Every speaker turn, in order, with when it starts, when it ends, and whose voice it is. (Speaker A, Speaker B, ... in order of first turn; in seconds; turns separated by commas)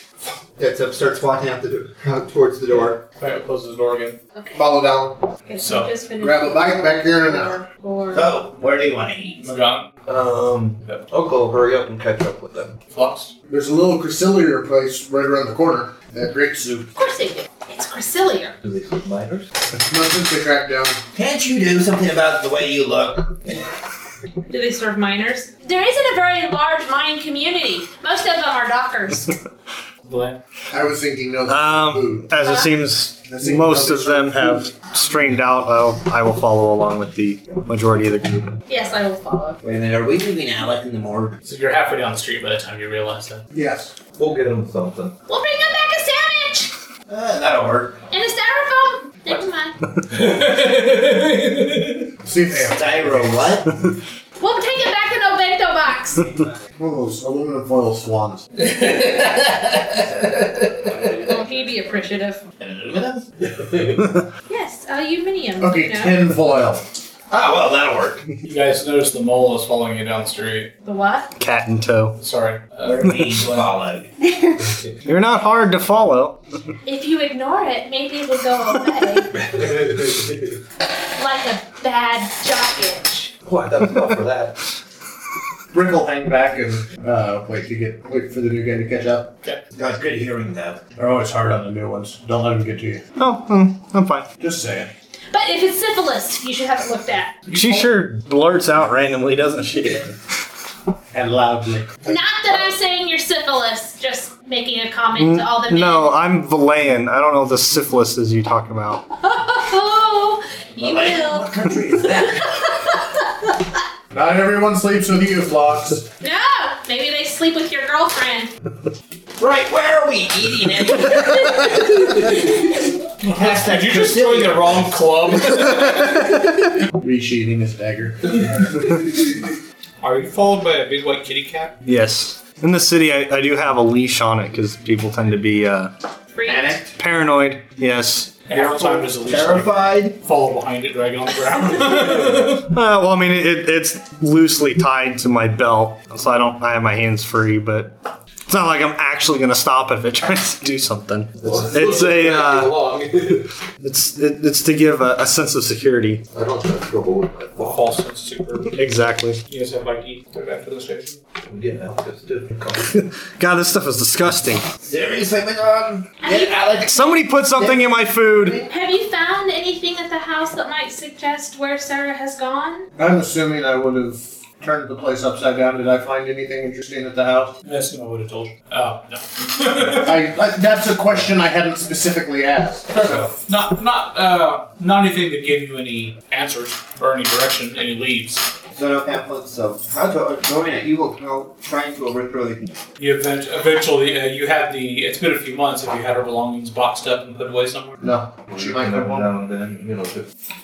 Speaker A: 0.6-3.0, Speaker B: 2.7-4.2, Speaker C: 4.3-4.7, Speaker D: 4.5-5.2, Speaker C: 5.5-8.3, Speaker B: 5.6-5.9, Speaker D: 6.2-7.6, Speaker A: 8.1-9.5, Speaker B: 9.4-9.9, Speaker E: 10.1-12.8, Speaker B: 12.9-13.3, Speaker D: 13.5-16.9, Speaker C: 16.9-18.5, Speaker E: 18.6-19.5, Speaker D: 19.9-21.0, Speaker A: 21.1-23.4, Speaker C: 24.5-29.4, Speaker B: 30.1-30.4, Speaker D: 30.7-32.3, Speaker F: 31.5-38.5, Speaker C: 32.4-32.7, Speaker D: 33.2-34.6, Speaker C: 38.7-39.6, Speaker A: 39.6-41.4, Speaker B: 41.4-43.4, Speaker D: 43.5-43.9, Speaker E: 44.1-45.1, Speaker C: 45.3-46.7, Speaker A: 47.1-48.0, Speaker C: 48.1-49.8, Speaker B: 50.1-52.1, Speaker D: 52.2-53.3, Speaker A: 52.5-53.8, Speaker C: 54.4-56.3, Speaker D: 56.8-58.4, Speaker A: 58.6-61.2, Speaker C: 61.2-62.4, Speaker A: 62.6-63.2, Speaker E: 63.4-64.1, Speaker C: 64.5-66.2, Speaker D: 65.6-66.8, Speaker A: 67.3-68.3, Speaker B: 68.4-70.7, Speaker C: 70.8-71.3, Speaker F: 71.4-72.2, Speaker B: 72.2-73.7, Speaker A: 72.8-74.1, Speaker F: 75.0-76.4, Speaker C: 76.8-79.5, Speaker E: 79.4-80.3, Speaker C: 81.2-83.3, Speaker E: 83.4-84.5, Speaker D: 85.7-89.3, Speaker A: 89.7-90.8, Speaker D: 91.0-93.0, Speaker F: 93.2-94.3, Speaker D: 94.4-94.9, Speaker C: 95.3-97.3, Speaker B: 97.5-98.0, Speaker F: 97.5-100.1, Speaker D: 101.1-102.1, Speaker C: 102.0-106.1, Speaker F: 105.1-109.0, Speaker C: 109.2-113.5, Speaker A: 110.8-112.6, Speaker D: 114.1-116.1, Speaker C: 116.2-118.5, Speaker A: 119.4-121.8, Speaker C: 121.0-122.2, Speaker B: 123.2-126.3, Speaker A: 123.3-124.9, Speaker D: 126.9-128.4, Speaker B: 130.0-131.8, Speaker F: 131.8-135.9, Speaker C: 136.3-136.7, Speaker A: 136.4-136.9, Speaker F: 137.0-138.4, Speaker B: 138.5-142.7, Speaker A: 138.5-140.2, Speaker F: 142.5-147.9, Speaker F: 148.5-152.8, Speaker E: 151.4-153.5, Speaker F: 153.8-156.2, Speaker E: 156.3-157.9, Speaker B: 157.6-158.7, Speaker F: 158.7-159.4, Speaker B: 159.5-161.2, Speaker E: 161.5-162.9, Speaker F: 162.9-164.7, Speaker A: 164.8-168.7, Speaker C: 166.2-166.6, Speaker F: 166.8-168.6, Speaker C: 168.7-172.8, Speaker D: 173.0-177.5, Speaker B: 177.6-180.3, Speaker D: 180.0-183.3, Speaker B: 183.0-188.5, Speaker A: 188.7-192.8, Speaker B: 193.0-198.0, Speaker D: 198.0-199.3, Speaker E: 198.5-200.2